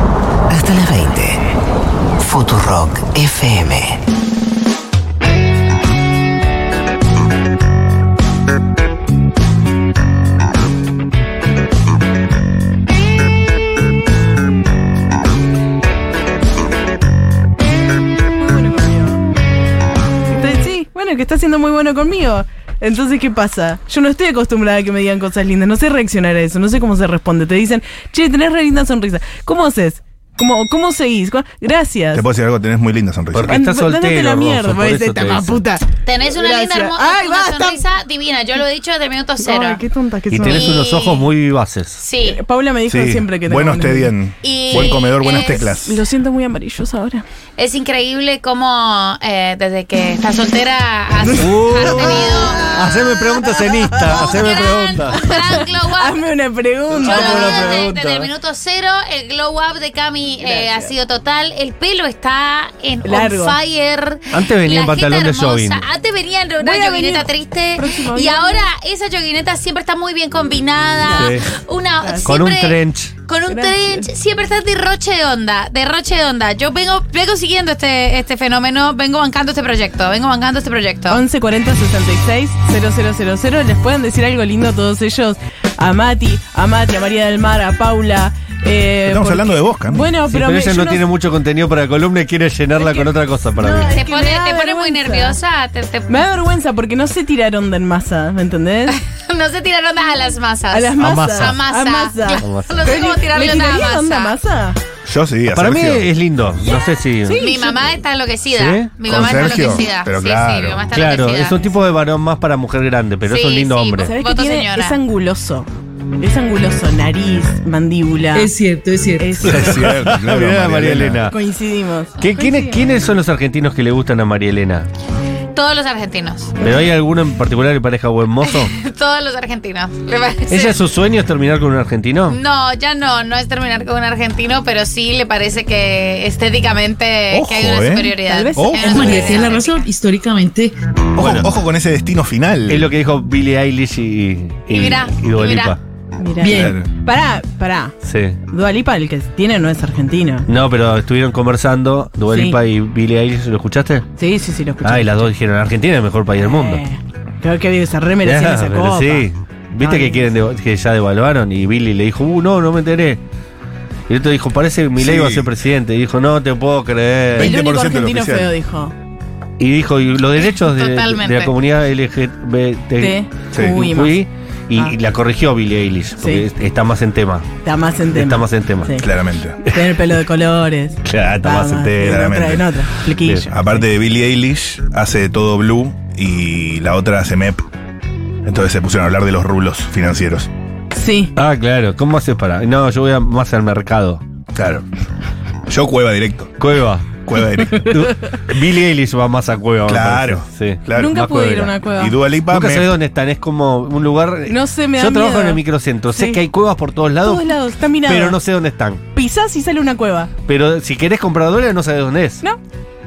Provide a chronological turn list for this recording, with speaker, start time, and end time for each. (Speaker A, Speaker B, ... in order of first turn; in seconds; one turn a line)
Speaker A: 0.5-1.4
Speaker A: 2.2-4.0
Speaker B: 18.4-19.2
Speaker B: 20.3-32.2
Speaker C: 32.1-33.6
Speaker D: 33.3-35.6
Speaker B: 33.5-37.8
Speaker E: 36.0-39.8
Speaker B: 39.4-40.8
Speaker D: 40.3-42.0
Speaker E: 40.4-41.2
Speaker E: 42.0-42.4
Speaker B: 42.2-44.1
Speaker C: 42.9-46.0
Speaker E: 44.4-45.7
Speaker B: 45.8-47.2
Speaker E: 47.6-52.7
Speaker B: 51.2-54.5
Speaker D: 51.4-55.4
Speaker E: 54.1-56.2
Speaker B: 55.1-57.8
Speaker D: 57.0-58.3
Speaker E: 57.0-81.2
Speaker B: 60.4-60.9
Speaker B: 63.0-63.6
Speaker D: 64.3-65.8
Speaker B: 66.6-68.7
Speaker B: 71.1-71.4
Speaker D: 71.1-71.5
Speaker B: 72.0-72.4
Speaker D: 72.2-73.1
Speaker B: 73.5-74.1
Speaker B: 81.1-91.0
Speaker C: 89.1-90.1
Speaker D: 90.3-94.0
Speaker B: 92.8-95.4
Speaker E: 93.9-96.2
Speaker B: 96.1-99.0
Speaker E: 98.9-104.4
Speaker B: 100.7-104.8
Speaker D: 101.0-101.6
Speaker D: 102.4-102.9
Speaker C: 105.1-106.1
Speaker D: 105.5-107.4
Speaker B: 107.2-107.8
Speaker E: 107.4-111.7
Speaker D: 108.5-108.9
Speaker C: 109.1-110.8
Speaker D: 110.9-114.1
Speaker E: 113.3-115.0
Speaker B: 114.0-115.7
Speaker B: 116.2-118.5
Speaker F: 118.3-119.4
Speaker B: 119.2-119.8
Speaker C: 119.4-121.3
Speaker D: 119.5-121.3
Speaker B: 121.3-122.8
Speaker D: 122.2-124.9
Speaker E: 125.5-126.6
Speaker D: 126.6-128.7
Speaker E: 128.4-130.8
Speaker D: 130.5-132.4
Speaker E: 132.3-139.9
Speaker C: 137.3-139.1
Speaker B: 138.3-139.5
Speaker F: 138.8-140.7
Speaker C: 141.2-142.9
Speaker D: 141.2-141.5
Speaker D: 142.7-145.8
Speaker E: 144.7-145.8
Speaker B: 146.2-147.9
Speaker C: 146.4-146.8
Speaker D: 148.0-148.4
Speaker B: 148.5-150.5
Speaker D: 150.5-154.1
Speaker B: 152.3-152.6
Speaker B: 154.2-155.3
Speaker D: 154.8-156.8
Speaker B: 156.4-159.3
Speaker D: 158.2-163.2
Speaker B: 159.8-160.3
Speaker D: 164.1-167.5
Speaker C: 165.0-165.5
Speaker C: 167.3-168.5
Speaker B: 167.4-168.9
Speaker D: 169.6-177.5
Speaker E: 170.6-171.5
Speaker B: 173.0-174.2
Speaker B: 176.2-176.4
Speaker B: 177.7-179.1
Speaker D: 178.1-179.0
Speaker C: 179.0-179.6
Speaker B: 179.7-183.8
Speaker D: 181.1-181.5
Speaker C: 181.1-182.8
Speaker C: 183.5-187.6
Speaker C: 188.4-190.5
Speaker B: 190.9-191.3
Speaker D: 191.4-194.2
Speaker C: 194.5-194.8
Speaker C: 195.7-196.6
Speaker D: 196.6-197.1
Speaker C: 197.3-197.9
Speaker D: 197.8-201.8
Speaker C: 199.9-201.2
Speaker B: 200.9-202.2
Speaker C: 202.0-202.9
Speaker D: 202.5-207.5
Speaker B: 204.5-206.4
Speaker B: 207.2-208.4
Speaker D: 208.0-209.0
Speaker B: 209.2-210.3
Speaker D: 210.5-212.4